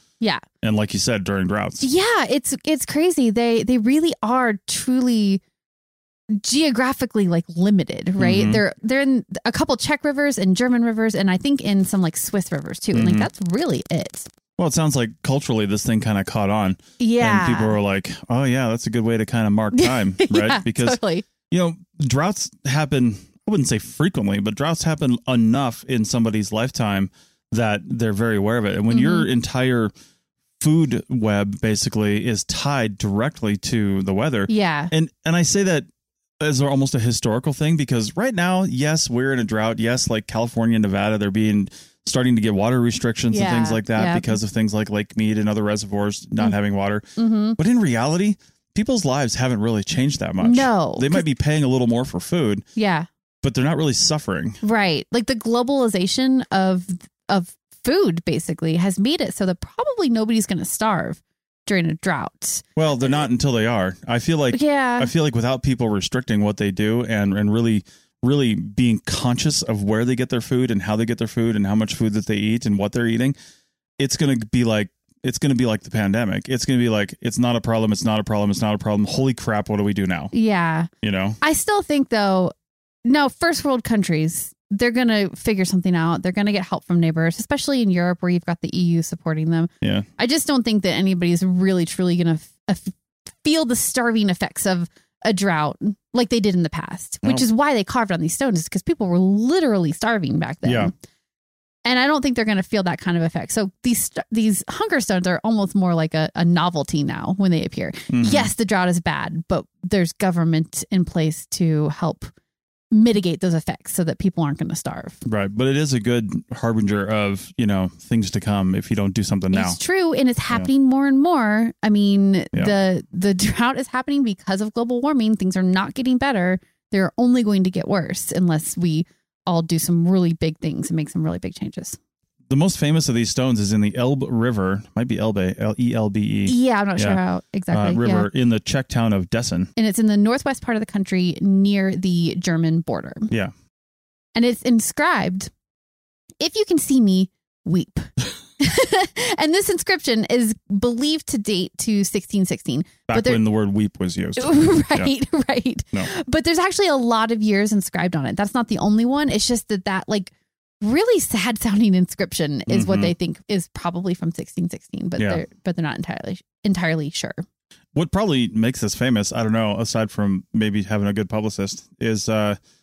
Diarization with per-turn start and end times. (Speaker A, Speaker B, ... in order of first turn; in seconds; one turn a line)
Speaker A: 0.6-1.8
Speaker B: 1.8-5.4
Speaker B: 6.3-14.3
Speaker A: 8.2-8.6
Speaker A: 12.9-13.3
Speaker A: 14.6-21.0
Speaker B: 17.0-17.8
Speaker B: 19.7-21.2
Speaker A: 21.5-29.9
Speaker B: 28.9-29.3
Speaker A: 30.6-35.9
Speaker B: 34.5-34.9
Speaker A: 36.4-47.0
Speaker B: 43.3-44.4
Speaker B: 47.2-47.6
Speaker A: 47.6-52.6
Speaker B: 50.4-51.2
Speaker B: 52.8-53.1
Speaker A: 53.4-54.6
Speaker B: 54.6-62.6
Speaker A: 62.8-73.3
Speaker B: 64.5-65.1
Speaker A: 74.0-80.3
Speaker B: 80.3-80.9
Speaker A: 81.0-81.4
Speaker B: 81.4-82.5
Speaker B: 83.0-100.9
Speaker A: 89.8-90.1
Speaker A: 100.6-100.9
Speaker B: 101.8-112.3
Speaker A: 108.1-108.5
Speaker B: 112.9-115.2
Speaker A: 115.2-119.8
Speaker B: 119.5-132.0
Speaker A: 132.5-139.7
Speaker B: 136.4-138.3
Speaker B: 139.8-143.3
Speaker B: 144.3-145.5
Speaker B: 146.4-153.4
Speaker A: 153.1-155.1
Speaker B: 154.4-167.4
Speaker A: 162.7-163.1
Speaker A: 165.2-165.4
Speaker A: 167.9-172.6